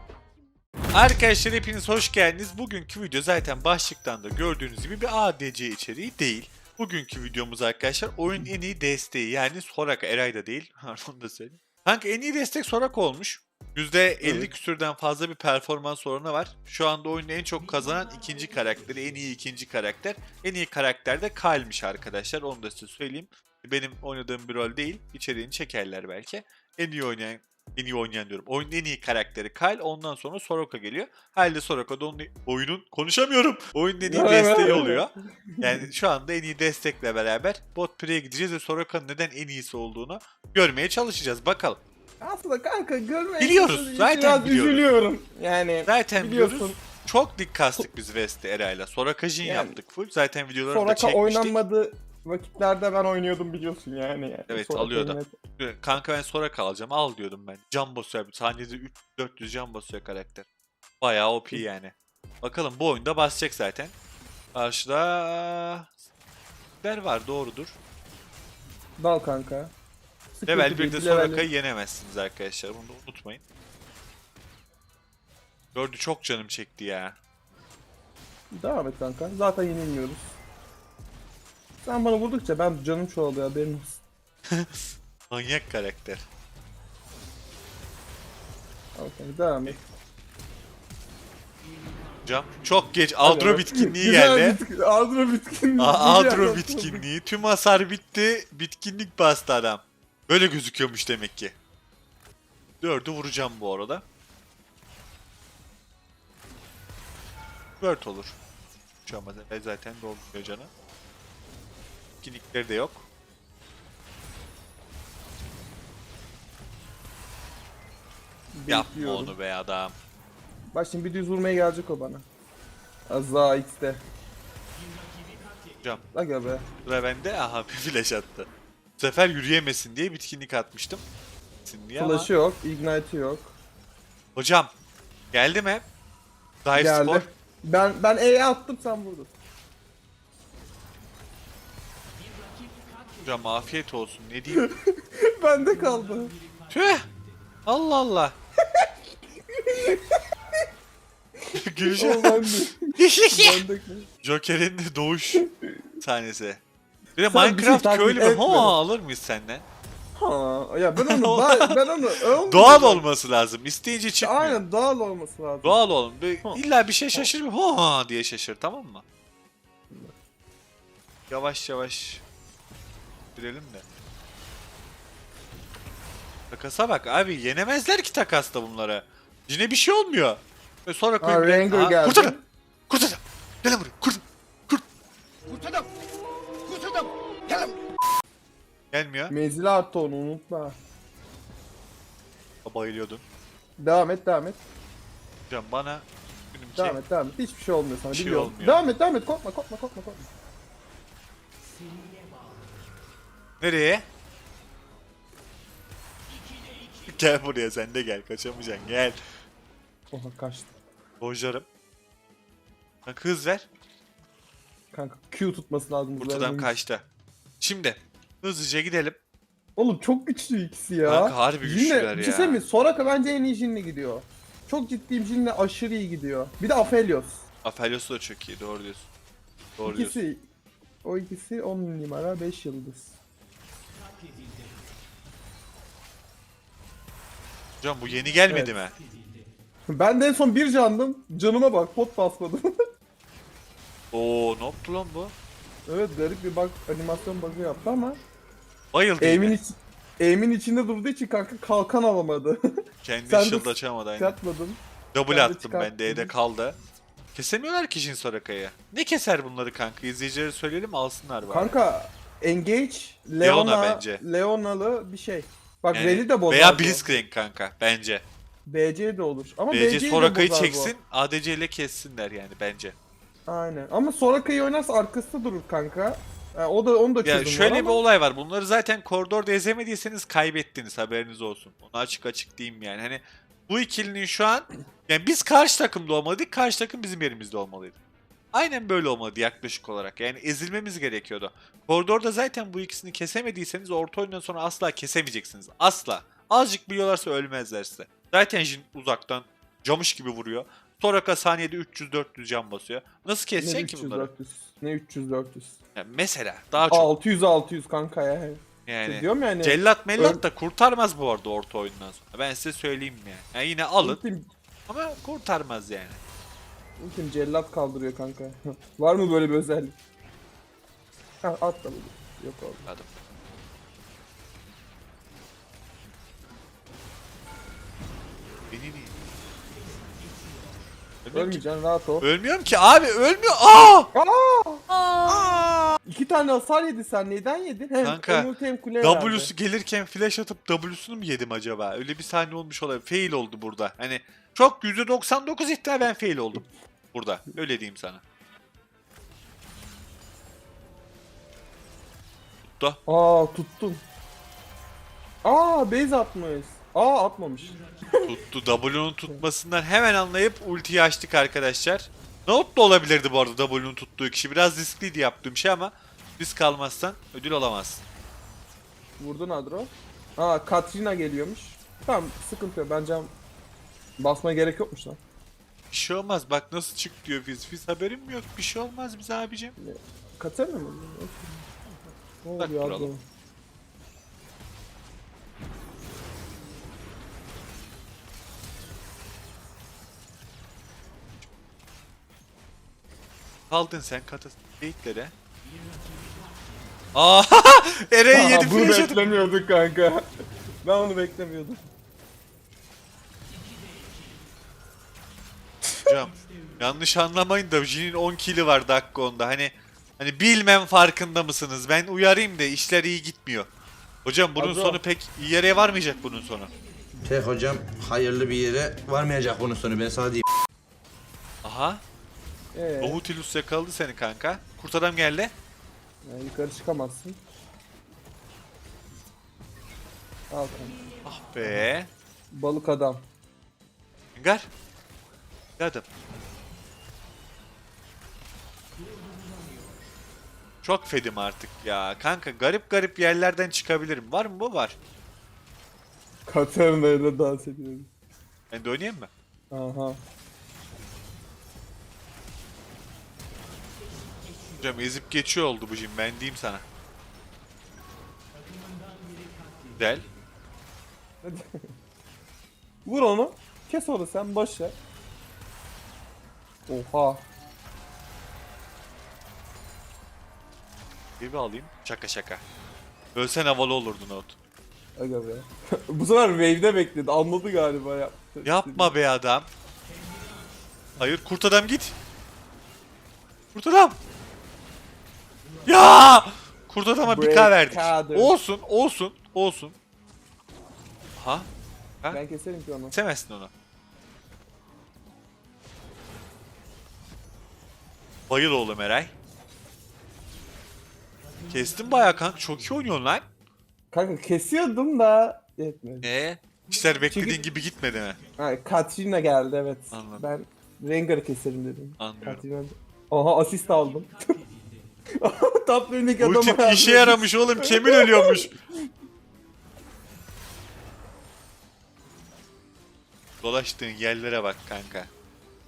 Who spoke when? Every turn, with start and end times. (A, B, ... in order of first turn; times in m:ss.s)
0:00.9-0:41.8 A
0:14.2-0:14.5 B
0:34.0-0:35.8 B
0:42.2-0:46.8 B
0:43.4-0:44.8 A
0:45.8-0:51.6 A
0:49.4-0:49.8 B
0:50.7-0:55.4 B
0:54.5-1:00.4 A
1:01.0-1:03.9 A
1:04.5-1:05.9 A
1:06.8-1:07.8 A
1:09.0-1:09.7 B
1:10.4-1:11.4 B
1:10.5-1:13.4 A
1:15.7-1:17.2 A
1:18.5-1:20.4 B
1:21.8-1:24.0 B
1:24.5-1:26.2 A
1:29.0-1:29.8 B
1:32.2-1:34.6 A
1:33.2-1:37.0 B
1:35.8-1:41.5 A
1:42.8-1:44.0 A
1:47.8-1:48.4 A
1:49.0-1:50.7 A
1:52.2-1:53.0 A
1:58.5-1:59.3 B
1:58.7-2:00.0 A
2:00.7-2:02.2 B
2:03.1-2:04.0 B
2:06.1-2:06.7 B
2:06.8-2:11.0 A
2:11.6-2:12.3 A
2:12.0-2:13.6 B
2:14.3-2:14.7 A
2:15.3-2:15.8 A
2:16.6-2:17.2 A
2:16.7-2:19.3 B
2:23.2-2:24.7 A
2:24.6-2:26.3 B
2:26.7-2:27.1 A
2:27.6-2:28.3 A
2:29.6-2:30.2 B
2:31.6-2:33.6 A
2:31.9-2:34.1 B
2:34.2-2:35.5 A
2:35.4-2:35.8 B
2:36.0-2:36.6 A
2:37.2-2:39.6 A
2:37.3-2:38.8 B
2:40.2-2:43.0 B
2:41.0-2:41.8 A
2:42.4-2:44.6 A
2:44.2-2:45.8 B
2:45.6-2:49.0 A
2:51.3-2:52.2 A
2:53.4-2:53.8 A
2:56.5-3:02.4 A
3:01.2-3:02.4 B
3:02.9-3:04.8 A
3:08.9-3:09.3 A
3:09.3-3:10.8 B
3:12.6-3:13.2 A
3:13.8-3:14.6 B
3:15.5-3:17.0 A
3:16.8-3:20.2 B
3:18.1-3:18.8 A
3:23.6-3:24.0 A
3:27.0-3:29.2 A
3:30.1-3:30.7 B
3:31.2-3:31.6 A
3:33.0-3:33.7 A
3:34.9-3:36.7 B
3:36.2-3:37.0 A
3:37.6-3:39.2 A
3:39.8-3:47.4 B
3:41.0-3:42.6 A
3:47.6-3:49.1 A
3:49.8-3:50.2 A
3:49.8-3:50.4 B
3:51.0-3:53.1 B
3:57.8-3:59.0 A
3:58.5-3:58.7 B
3:59.9-4:02.7 B
4:04.1-4:05.3 A
4:05.8-4:08.2 B
4:08.9-4:09.6 A
4:09.2-4:12.6 B
4:13.0-4:14.4 A
4:13.3-4:16.3 B
4:15.1-4:16.8 A
4:17.3-4:21.7 A
4:21.4-4:27.1 B
4:23.4-4:24.2 A
4:25.9-4:28.2 A
4:28.6-4:30.9 B
4:29.7-4:32.9 A
4:33.4-4:38.0 B
4:37.2-4:48.0 A
4:48.5-5:04.3 A
5:03.6-5:05.8 B
5:06.0-5:07.1 A
5:06.8-5:10.4 B
5:08.8-5:14.2 A
5:14.0-5:14.5 B
5:14.9-5:16.2 A
5:17.0-5:20.0 B
5:21.4-5:22.9 B
5:28.7-5:29.1 A
5:31.2-5:31.6 A
5:31.3-5:32.2 B
5:32.2-5:34.1 A
5:34.1-5:34.8 B
5:34.9-5:35.7 A
5:36.0-5:39.5 B
5:38.0-5:48.2 A
5:52.7-5:53.0 A
5:53.0-5:54.0 B
5:55.4-5:58.3 B
5:58.3-6:08.0 A
6:09.2-6:13.3 B
6:14.2-6:15.2 B
6:15.9-6:19.7 A
6:19.8-6:23.2 B
6:22.6-6:23.1 A
6:33.7-6:35.3 A
6:37.1-6:39.3 A
6:38.3-6:40.2 B
6:40.8-6:41.9 B
6:46.0-6:53.7 A
6:54.2-6:56.7 A
6:54.6-6:55.0 B
6:57.2-7:00.4 C
7:01.6-7:02.0 A
7:02.7-7:03.2 B
7:03.0-7:05.5 A
7:06.2-7:07.4 B
7:10.5-7:11.0 B
7:11.2-7:12.1 A
7:12.5-7:13.2 B
7:14.4-7:14.7 A
7:15.8-7:16.0 A
7:20.8-7:24.9 A
7:26.4-7:28.1 B
7:28.7-7:29.3 A
7:29.7-7:30.2 B
7:34.8-7:36.8 A
7:40.0-7:40.3 A
7:41.4-7:41.8 B
7:43.0-7:45.0 B
7:46.9-7:47.4 B
7:51.4-7:52.6 A
7:53.3-7:54.5 A
7:55.2-7:59.2 B
7:58.6-7:59.7 A
8:01.2-8:02.1 A
8:03.7-8:04.2 A
8:05.8-8:09.9 A
8:07.2-8:08.5 B
8:11.4-8:11.7 A
8:12.3-8:13.1 B
8:13.1-8:13.7 A
8:18.5-8:19.3 A
8:21.7-8:23.4 A
8:24.1-8:26.3 B
8:26.2-8:28.4 A
8:27.3-8:27.6 B
8:28.6-8:34.6 B
8:30.1-8:30.4 A
8:32.2-8:32.6 A
8:35.4-8:38.7 B
8:36.4-8:38.7 A
8:43.6-8:45.3 A